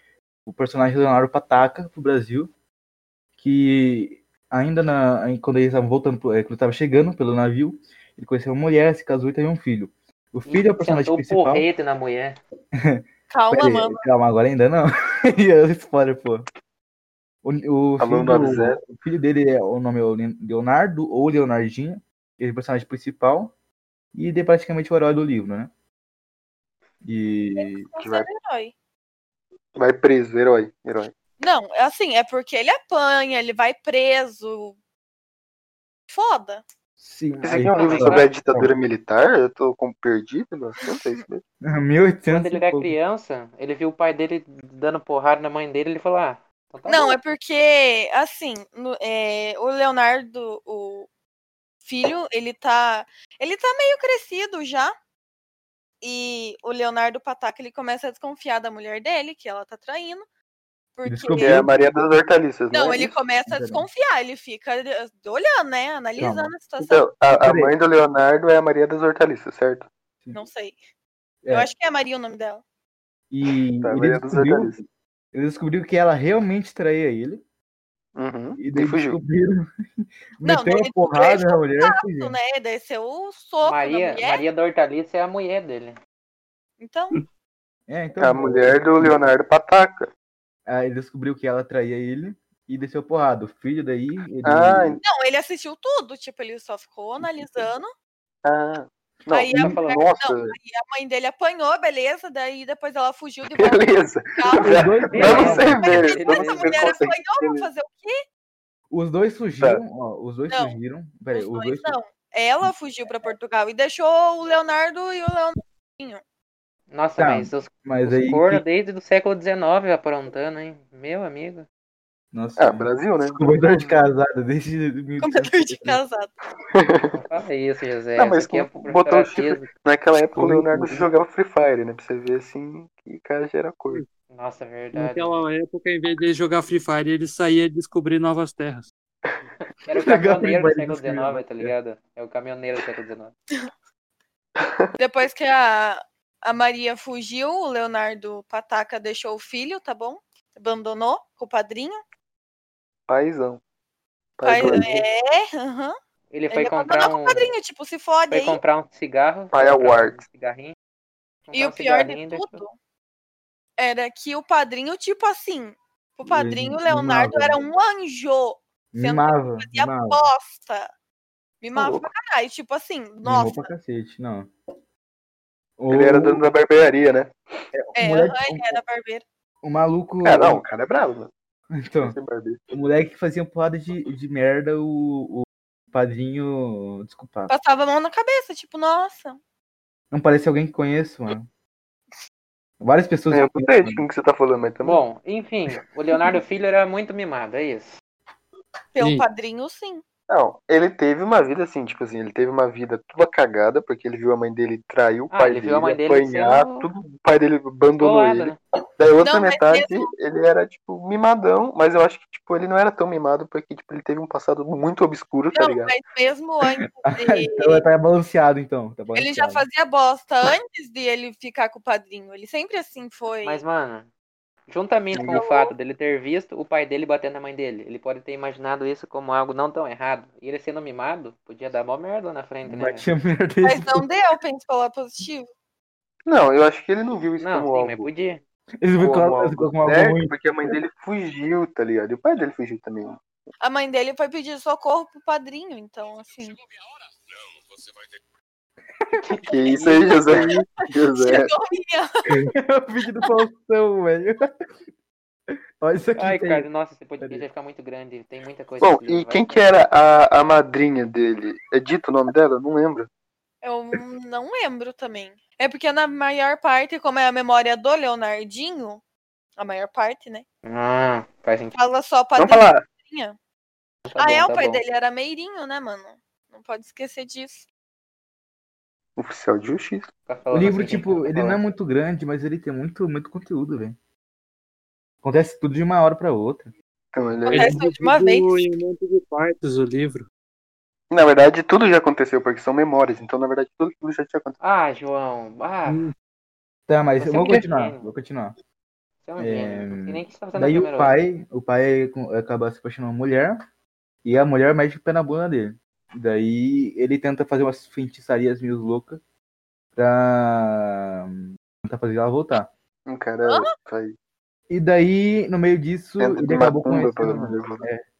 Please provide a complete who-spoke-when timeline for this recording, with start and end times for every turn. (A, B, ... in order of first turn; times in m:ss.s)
0:00.4-0:02.5 A
0:03.4-0:11.7 A
0:10.5-0:12.4 B
0:12.7-0:16.4 A
0:13.3-0:14.0 C
0:17.4-0:23.5 A
0:18.0-0:18.8 D
0:24.1-0:25.7 A
0:27.0-0:27.9 A
0:27.6-0:28.7 C
0:28.0-0:28.3 D
0:29.8-0:31.1 D
0:31.4-0:34.8 C
0:36.1-0:36.6 C
0:37.0-0:38.8 A
0:37.4-0:41.4 D
0:37.7-0:38.3 C
0:37.8-0:38.2 B
0:41.6-0:42.9 A
0:42.3-0:47.2 B
0:46.9-0:51.1 C
0:51.8-0:54.9 C
0:56.0-1:00.2 C
1:01.0-1:01.6 C
1:01.0-1:01.7 A
1:01.4-1:03.2 D
1:02.7-1:07.0 C
1:03.5-1:03.8 A
1:06.2-1:06.5 A
1:06.8-1:09.9 D
1:07.2-1:07.7 A
1:10.3-1:10.8 C
1:11.4-1:11.7 A
1:11.5-1:12.6 C
1:13.3-1:17.4 A
1:13.8-1:14.8 D
1:18.2-1:19.2 D
1:18.6-1:22.4 A
1:20.4-1:24.4 C
1:23.6-1:26.0 B
1:26.8-1:27.1 C
1:27.9-1:29.2 A
1:28.2-1:30.1 D
1:30.7-1:35.0 A
1:34.4-1:35.0 D
1:35.0-1:37.9 C
1:38.4-1:40.6 D
1:39.3-1:48.2 C
1:39.7-1:40.0 B
1:43.5-1:47.7 D
1:44.6-1:45.8 A
1:45.1-1:46.9 B
1:48.9-1:52.0 A
1:50.5-1:50.8 C
1:51.3-1:56.2 C
1:56.9-2:01.6 B
1:57.2-1:58.6 A
2:02.3-2:06.0 A
2:02.6-2:03.4 D
2:05.2-2:06.3 C
2:06.7-2:07.1 D
2:07.1-2:09.6 B
2:08.2-2:14.0 D
2:10.4-2:11.0 E
2:14.3-2:15.4 B
2:14.9-2:18.9 E
2:19.8-2:23.3 B
2:19.9-2:21.7 A
2:24.6-2:24.9 D
2:25.0-2:32.0 C
2:33.1-2:33.6 D
2:34.4-2:35.0 D
2:34.4-2:35.9 C
2:36.3-2:37.5 B
2:36.5-2:38.6 C
2:38.3-2:40.7 B
2:39.5-2:40.2 D
2:41.5-2:42.6 B
2:41.5-2:42.7 C
2:43.8-2:50.9 C
2:46.2-2:47.6 A
2:48.9-2:50.2 A
2:51.6-2:53.7 C
2:51.7-2:52.1 D
2:53.2-2:54.5 A
2:55.8-2:56.4 A
2:55.9-2:57.3 D
2:57.7-2:58.8 A
2:58.0-2:59.2 C
2:59.6-3:00.6 A
3:00.2-3:01.3 D
3:01.7-3:02.2 A
3:02.0-3:02.6 D
3:02.7-3:07.5 A
3:07.5-3:09.4 C
3:10.1-3:11.5 A
3:12.8-3:14.0 A
3:13.3-3:15.0 D
3:14.8-3:18.0 B
3:18.9-3:20.0 C
3:19.0-3:19.2 E
3:20.3-3:35.9 D
3:25.3-3:26.9 B
3:28.0-3:28.6 B
3:29.2-3:30.1 C
3:35.5-3:37.8 C
3:37.0-3:39.6 A
3:39.1-3:43.6 C
3:43.4-3:44.1 B
3:44.7-3:53.0 B
3:45.3-3:45.7 C
3:52.6-3:54.0 A
3:53.6-3:55.5 C
3:56.2-3:58.1 D
3:57.4-3:58.4 B
3:58.8-4:00.7 A
3:59.0-4:03.2 D
4:03.6-4:06.6 C
4:09.4-4:11.5 D
4:09.5-4:10.5 C
4:11.2-4:12.4 C
4:12.3-4:14.4 A
4:15.8-4:16.6 A
4:16.2-4:19.7 B
4:17.2-4:17.4 A
4:18.8-4:23.1 D
4:23.6-4:29.0 C
4:29.6-4:30.4 C
4:30.6-4:31.8 B
4:31.8-4:33.3 C
4:32.4-4:32.8 D
4:34.0-4:34.8 B
4:34.2-4:37.6 C
4:39.2-4:40.1 D
4:40.3-4:41.3 B
4:40.5-4:44.0 A
4:41.3-4:41.6 D
4:45.2-4:46.7 A
4:47.1-4:47.8 D
4:47.4-4:48.6 C
4:47.5-4:50.3 E
4:51.1-4:54.6 D
4:54.6-4:56.0 B
4:55.9-4:56.1 E
4:56.9-4:58.5 A
4:57.2-4:58.0 B
4:59.2-5:01.2 B
4:59.4-5:03.6 A
5:04.2-5:09.2 A
5:10.0-5:12.7 A
5:13.1-5:14.1 D
5:14.7-5:18.0 A
5:16.2-5:17.8 D